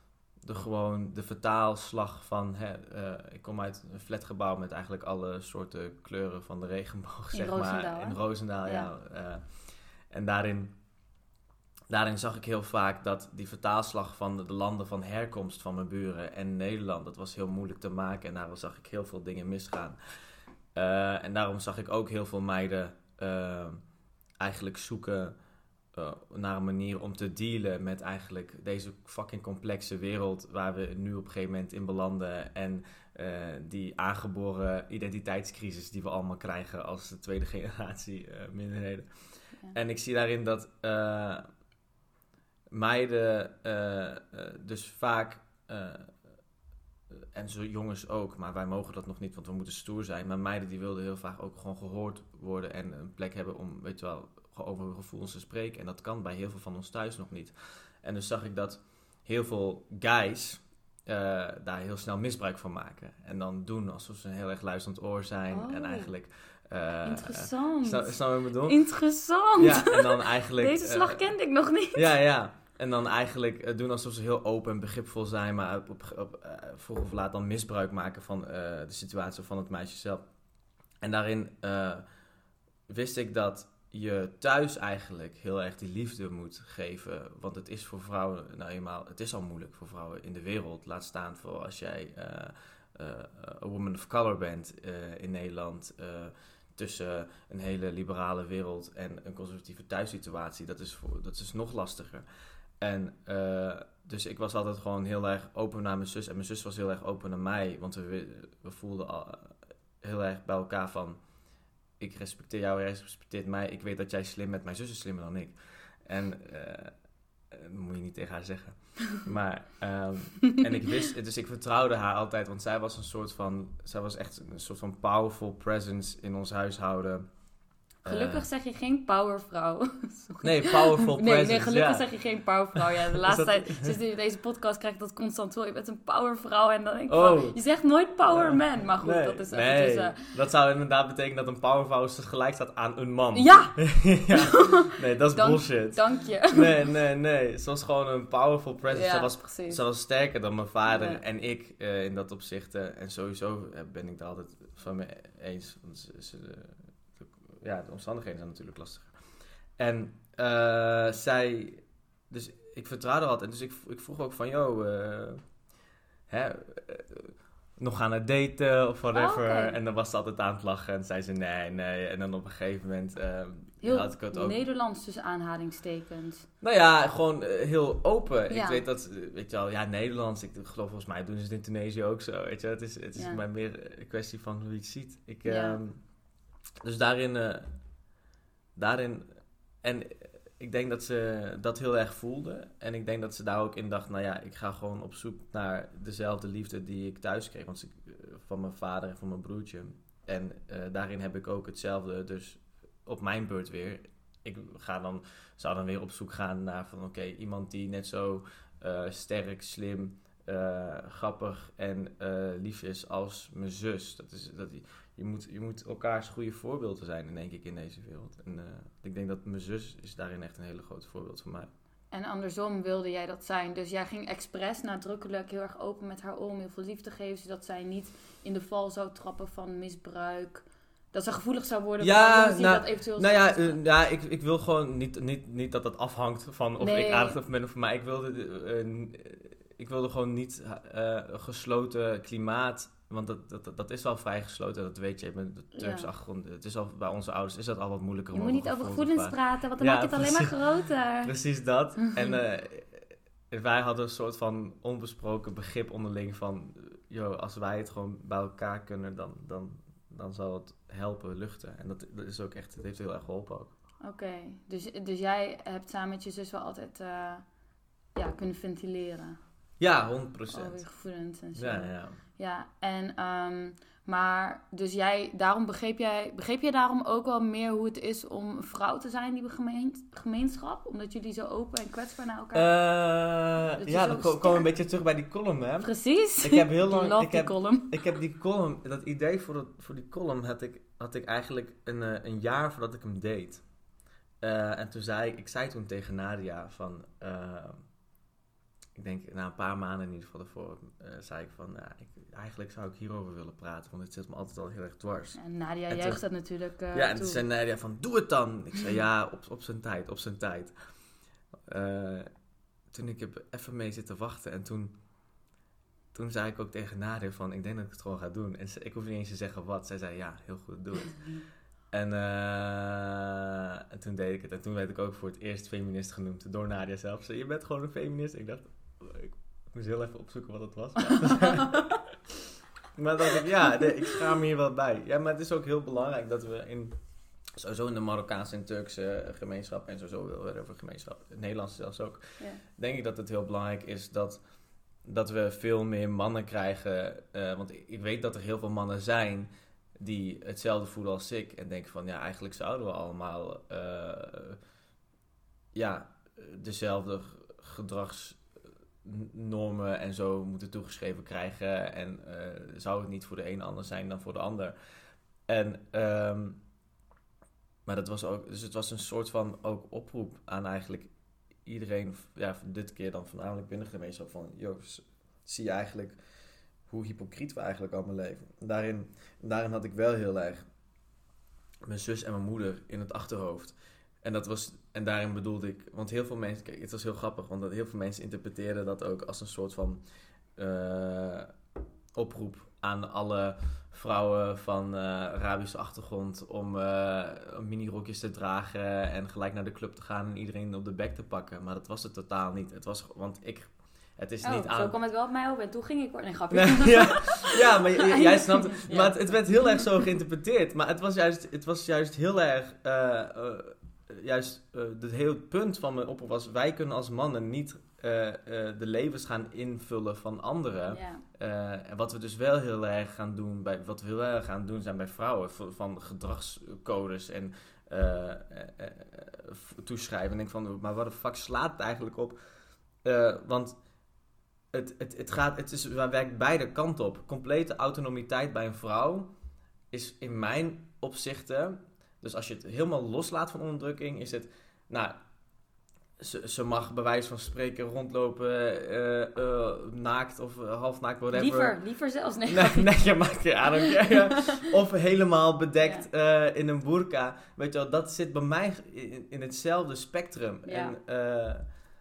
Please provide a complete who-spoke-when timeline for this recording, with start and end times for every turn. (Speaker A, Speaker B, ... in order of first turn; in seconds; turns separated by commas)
Speaker A: 0.4-10.7, Speaker B: 7.3-8.9, Speaker A: 11.9-20.0, Speaker A: 20.7-23.8, Speaker A: 24.4-25.3, Speaker A: 25.9-39.1, Speaker A: 39.7-41.4, Speaker A: 42.7-46.1, Speaker A: 47.1-68.8, Speaker B: 65.5-66.1, Speaker B: 67.0-72.1, Speaker A: 69.6-71.3, Speaker A: 71.9-80.2, Speaker A: 81.0-82.0, Speaker A: 82.9-102.2, Speaker A: 102.8-111.2, Speaker A: 112.0-116.9, Speaker A: 117.5-127.2, Speaker A: 128.0-128.4, Speaker B: 128.0-140.2, Speaker A: 130.4-132.1, Speaker A: 132.7-133.9, Speaker A: 137.1-137.6, Speaker A: 138.3-159.1, Speaker B: 143.3-146.8, Speaker B: 148.9-149.8, Speaker B: 150.8-151.2, Speaker A: 159.8-165.4, Speaker A: 166.3-174.6, Speaker B: 169.1-169.8, Speaker B: 173.8-176.5, Speaker A: 176.6-186.0, Speaker B: 178.5-178.8, Speaker B: 183.2-183.4, Speaker B: 185.4-185.8, Speaker A: 186.8-187.7, Speaker A: 188.8-189.3, Speaker A: 189.8-221.7, Speaker B: 222.1-233.8, Speaker A: 232.0-263.7, Speaker B: 236.8-237.4, Speaker B: 245.7-246.1, Speaker B: 248.3-251.3, Speaker B: 252.0-252.4, Speaker B: 264.0-267.4, Speaker B: 268.1-269.4, Speaker A: 269.8-270.9, Speaker B: 270.5-282.7, Speaker A: 271.6-272.2, Speaker A: 282.5-293.6, Speaker B: 283.8-284.7, Speaker B: 285.8-288.2, Speaker A: 294.4-297.8, Speaker A: 298.9-305.4, Speaker B: 305.3-307.4, Speaker A: 305.9-306.2, Speaker A: 306.9-310.7, Speaker A: 311.6-312.3, Speaker A: 312.9-314.9, Speaker A: 316.1-321.3, Speaker A: 321.9-332.3, Speaker B: 331.4-331.8, Speaker A: 332.9-336.9, Speaker A: 337.5-344.4, Speaker A: 345.0-354.6, Speaker A: 355.7-358.4, Speaker A: 359.0-364.7, Speaker A: 365.5-366.6, Speaker A: 367.9-371.1, Speaker A: 371.6-376.2, Speaker A: 376.9-380.6, Speaker A: 381.8-390.0, Speaker A: 390.6-391.5, Speaker A: 392.1-404.9, Speaker B: 404.4-409.9, Speaker A: 406.5-432.4, Speaker B: 420.9-421.2, Speaker A: 433.0-433.8, Speaker A: 434.7-439.3, Speaker A: 439.9-445.2, Speaker A: 446.2-451.8, Speaker B: 451.3-452.9, Speaker A: 452.5-461.7, Speaker B: 454.1-454.6, Speaker B: 460.6-461.0